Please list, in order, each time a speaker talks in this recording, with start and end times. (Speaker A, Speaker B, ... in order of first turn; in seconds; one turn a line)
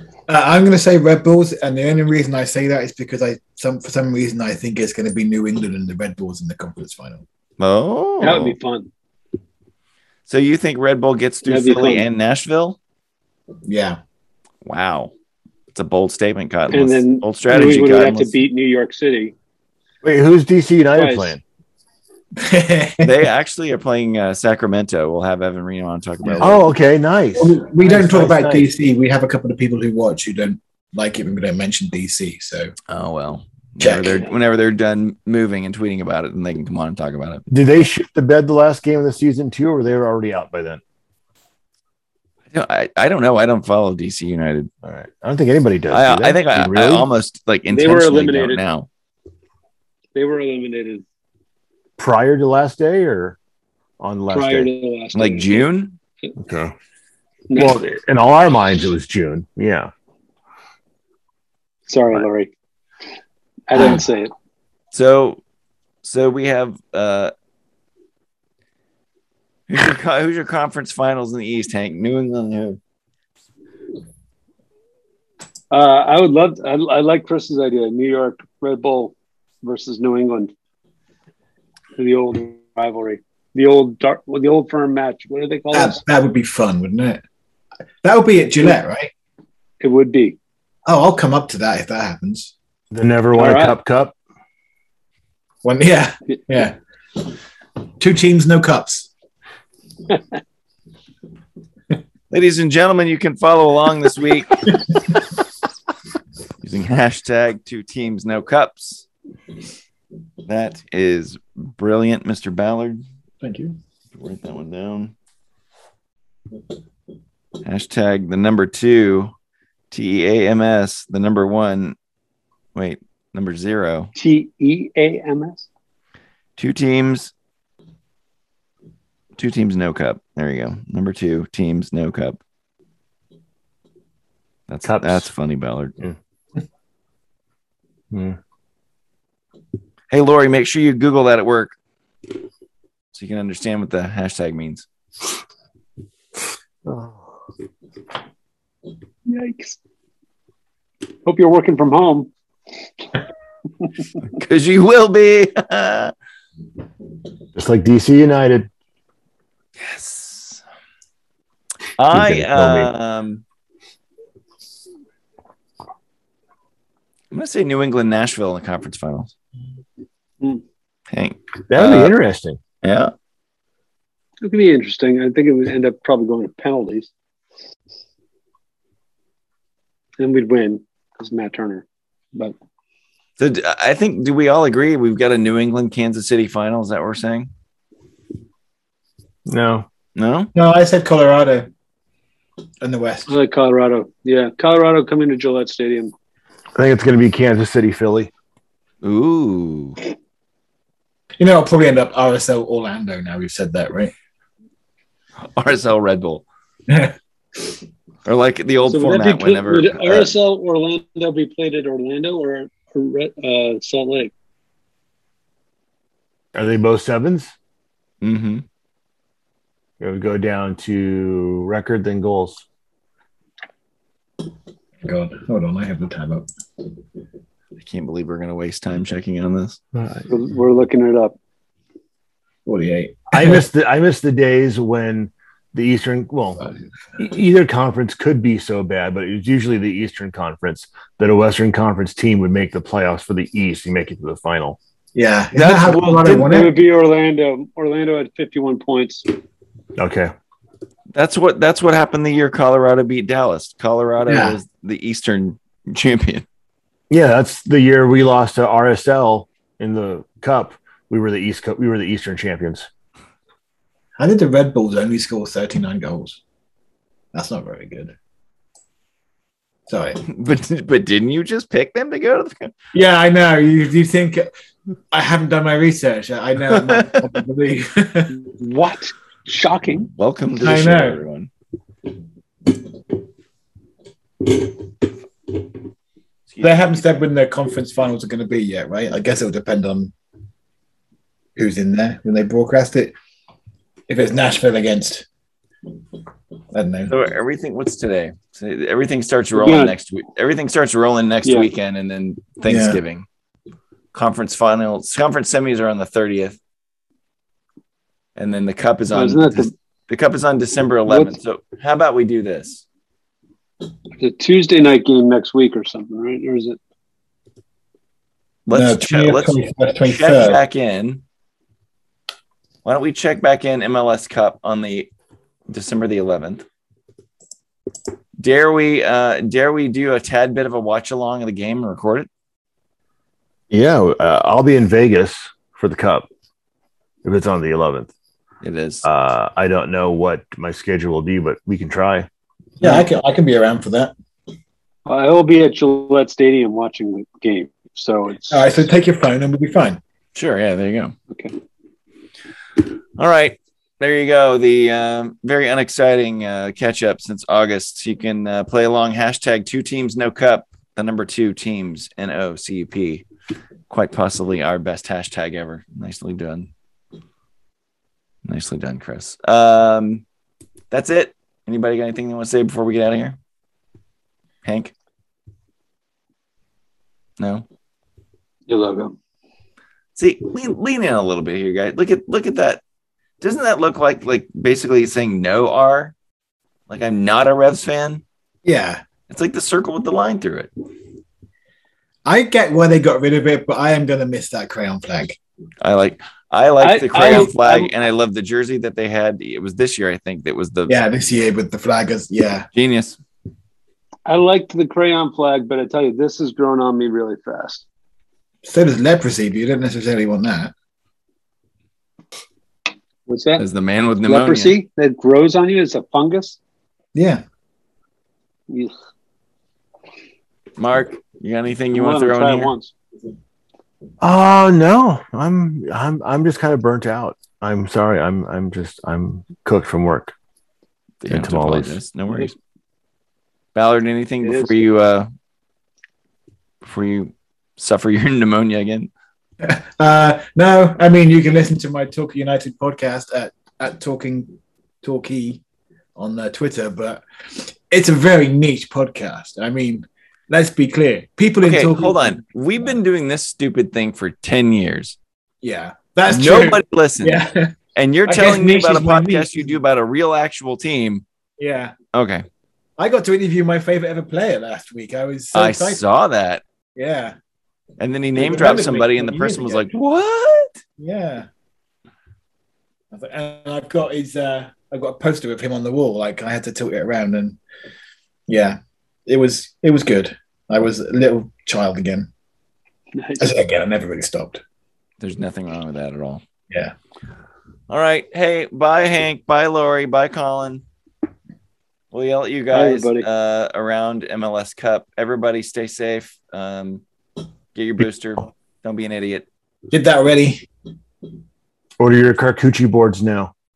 Speaker A: 0.3-7.2
Speaker B: 7.6-8.6
Speaker C: 8.2-8.9
Speaker B: 10.3-12.8
Speaker C: 11.4-12.1
Speaker A: 13.7-14.0
Speaker B: 14.6-15.1
Speaker B: 15.7-18.4
Speaker C: 16.7-19.3
Speaker D: 20.0-21.4
Speaker C: 20.9-21.4
Speaker A: 22.4-23.1
Speaker B: 23.0-26.7
Speaker D: 26.4-28.7
Speaker A: 27.4-32.7
Speaker B: 32.9-37.5
Speaker A: 33.8-34.2
Speaker D: 37.5-40.8
Speaker B: 42.5-44.7
Speaker D: 44.8-47.1
Speaker B: 45.9-48.9
Speaker C: 47.7-48.6
Speaker C: 50.1-51.0
Speaker D: 52.0-53.4
Speaker D: 54.0-54.7
Speaker C: 54.3-55.7
Speaker B: 55.1-56.0
Speaker D: 56.4-56.7
Speaker C: 57.5-57.8
Speaker D: 57.5-59.9
Speaker C: 61.9-62.5
Speaker C: 63.7-64.3
Speaker B: 64.9-65.4
Speaker B: 66.0-67.3
Speaker B: 69.7-72.8
Speaker C: 75.7-80.5
Speaker C: 82.0-86.0
Speaker A: 85.7-87.2
Speaker A: 88.0-89.1
Speaker C: 89.8-90.4
Speaker A: 90.9-92.5
Speaker D: 92.9-94.1
Speaker C: 93.3-93.8
Speaker A: 95.6-96.8
Speaker A: 98.0-99.1
Speaker B: 102.3-104.7
Speaker B: 106.6-109.0
Speaker B: 110.5-113.0
Speaker A: 113.4-113.8
Speaker B: 114.1-115.1
Speaker B: 117.6-119.3
Speaker B: 119.9-122.0
Speaker B: 122.7-124.1
Speaker C: 124.2-125.7
Speaker B: 126.6-127.3
Speaker B: 129.4-132.4
Speaker B: 134.7-135.9
Speaker D: 134.8-135.3
Speaker D: 138.1-138.4
Speaker B: 140.1-141.7
Speaker B: 143.1-144.8
Speaker D: 146.8-147.4
Speaker C: 149.2-149.8
Speaker C: 151.2-152.3
Speaker B: 154.3-156.1
Speaker D: 157.5-158.7
Speaker B: 159.8-160.6
Speaker B: 162.0-163.4
Speaker D: 162.1-162.9
Speaker B: 167.3-169.3
Speaker B: 171.1-172.2
Speaker D: 171.7-172.6
Speaker B: 172.8-173.1
Speaker C: 174.4-177.1
Speaker C: 180.2-182.5
Speaker B: 183.4-187.5
Speaker D: 189.4-189.9
Speaker B: 190.2-190.5
Speaker A: 190.5-191.7
Speaker A: 192.8-193.3
Speaker C: 193.3-196.1
Speaker D: 196.7-198.3
Speaker B: 199.0-200.0
Speaker A: 201.4-204.1
Speaker B: 205.4-206.4
Speaker A: 206.9-207.1
Speaker B: 208.2-210.3
Speaker C: 208.8-214.3
Speaker D: 216.5-217.5
Speaker B: 218.2-218.6
Speaker D: 220.0-222.6
Speaker A: 225.0-226.5
Speaker B: 227.8-229.8
Speaker D: 230.0-230.2
Speaker C: 230.3-231.3
Speaker A: 232.7-233.6
Speaker D: 233.3-236.6
Speaker D: 237.2-244.8
Speaker A: 245.1-246.7
Speaker B: 245.5-246.5
Speaker C: 246.4-249.3
Speaker D: 250.0-250.3
Speaker B: 251.1-256.4
Speaker A: 254.2-254.6
Speaker D: 257.1-262.9
Speaker A: 264.2-266.4
Speaker A: 267.3-268.1
Speaker A: 269.9-270.2
Speaker B: 270.2-272.7
Speaker A: 272.9-274.5
Speaker A: 275.1-278.3
Speaker B: 276.7-277.3
Speaker C: 278.4-280.1
Speaker B: 280.1-281.5
Speaker A: 280.6-281.2
Speaker B: 286.5-287.1
Speaker A: 286.6-290.1
Speaker A: 291.6-293.1
Speaker A: 294.1-295.2
Speaker A: 296.7-297.1
Speaker B: 297.1-303.2
Speaker C: 299.5-299.9
Speaker C: 301.4-301.7
Speaker A: 302.6-303.0
Speaker B: 304.1-306.6
Speaker B: 308.4-312.8
Speaker C: 309.1-309.7
Speaker C: 311.1-311.3
Speaker C: 314.2-316.8
Speaker A: 318.7-320.6
Speaker B: 318.7-321.2
Speaker B: 322.8-325.1
Speaker B: 325.7-326.6
Speaker B: 328.4-332.3
Speaker D: 333.7-336.3
Speaker D: 337.2-338.1
Speaker B: 338.6-339.1
Speaker D: 339.0-342.3
Speaker A: 342.8-344.1
Speaker C: 345.1-348.6
Speaker A: 348.5-350.0
Speaker B: 350.3-351.1
Speaker B: 353.2-363.2
Speaker B: 363.9-366.7
Speaker B: 368.4-370.2
Speaker B: 370.9-373.4
Speaker B: 374.6-374.9
Speaker B: 377.4-377.6
Speaker C: 378.7-379.1
Speaker B: 380.1-382.8
Speaker B: 383.4-386.1
Speaker B: 386.9-388.2
Speaker A: 388.6-389.0
Speaker B: 389.3-390.7
Speaker A: 392.2-395.4
Speaker B: 395.8-400.9
Speaker C: 396.8-397.9
Speaker A: 400.9-402.7
Speaker B: 402.7-403.2
Speaker C: 404.2-407.8
Speaker A: 408.6-410.7
Speaker C: 413.3-413.6
Speaker B: 413.6-414.8
Speaker C: 414.2-416.6
Speaker A: 417.1-417.4
Speaker C: 418.7-418.9
Speaker B: 420.8-422.7
Speaker C: 421.9-422.9
Speaker D: 424.2-430.3
Speaker B: 431.2-432.5
Speaker D: 431.3-432.0
Speaker B: 433.7-435.3
Speaker C: 434.4-434.7
Speaker B: 436.8-439.1
Speaker A: 439.6-445.6
Speaker A: 446.1-452.4
Speaker B: 451.6-455.1
Speaker A: 455.6-457.7
Speaker B: 456.3-457.4
Speaker B: 457.9-461.2
Speaker A: 458.3-459.8
Speaker A: 461.6-461.9
Speaker B: 462.1-462.4
Speaker A: 463.0-466.0
Speaker B: 465.5-466.6
Speaker A: 466.9-467.3
Speaker B: 468.0-470.8
Speaker A: 468.3-469.9
Speaker A: 471.0-471.5
Speaker A: 473.1-477.6
Speaker A: 478.5-482.3
Speaker C: 483.1-483.5
Speaker A: 483.4-484.6
Speaker B: 485.2-486.4
Speaker B: 487.9-490.8
Speaker B: 492.1-497.0
Speaker C: 492.7-493.3
Speaker B: 497.7-499.4
Speaker A: 499.9-500.7
Speaker D: 502.0-503.5